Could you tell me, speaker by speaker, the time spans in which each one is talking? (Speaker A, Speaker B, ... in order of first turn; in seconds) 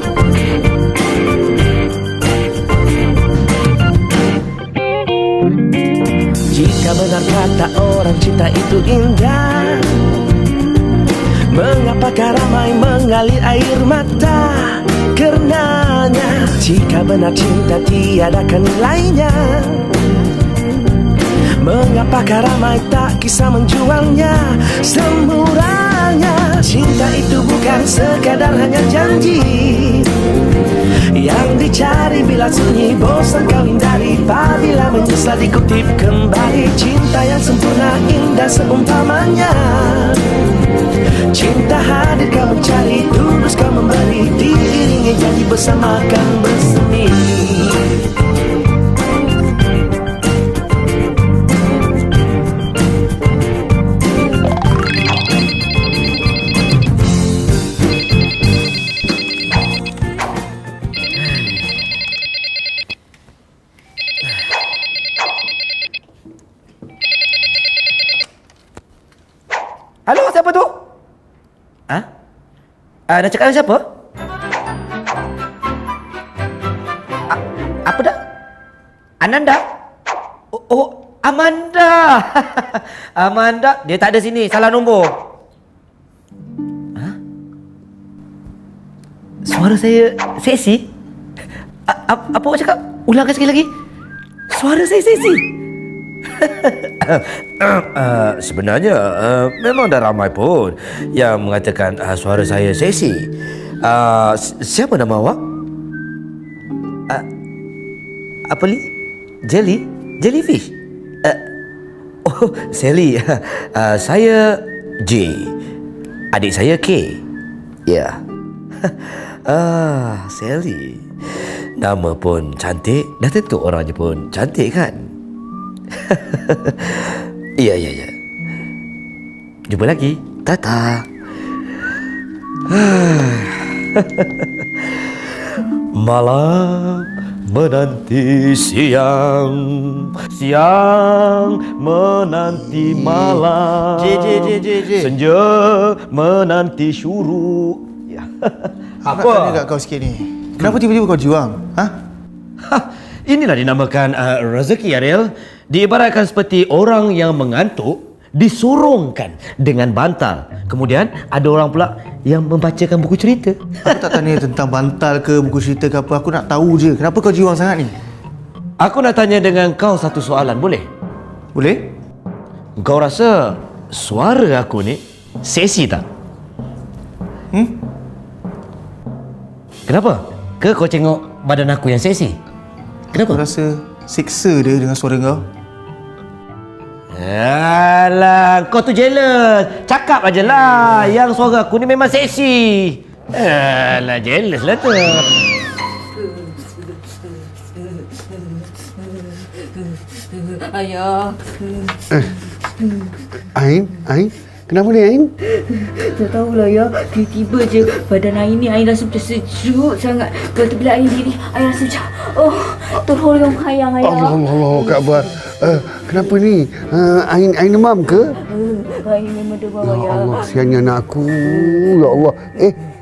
Speaker A: 6.5-10.0, 11.5-19.9, 21.6-30.1, 31.1-40.2, 41.3-47.9
Speaker B: 70.1-70.8, 73.1-73.8, 77.3-78.2, 79.2-79.6, 80.5-85.2, 89.4-90.9, 91.9-93.7, 94.5-95.5, 96.2-103.3, 103.8-105.4, 108.5-108.9, 109.4-110.7, 112.2-115.5, 116.3-117.2, 117.8-118.2, 118.8-125.1, 125.9-128.1, 129.7-131.1, 132.7-135.0, 135.9-149.6, 152.6-164.0, 168.8-170.9, 172.8-176.0, 179.9-182.4, 183.1-183.4, 187.1-195.3
Speaker C: 142.8-145.1, 149.0-151.9, 163.8-168.0, 171.5-171.8, 177.5-177.8, 183.1-185.4
Speaker D: 200.4-201.6, 205.7-215.0, 218.4-220.5, 221.5-221.9
Speaker E: 203.5-205.3, 214.0-218.3, 219.8-222.8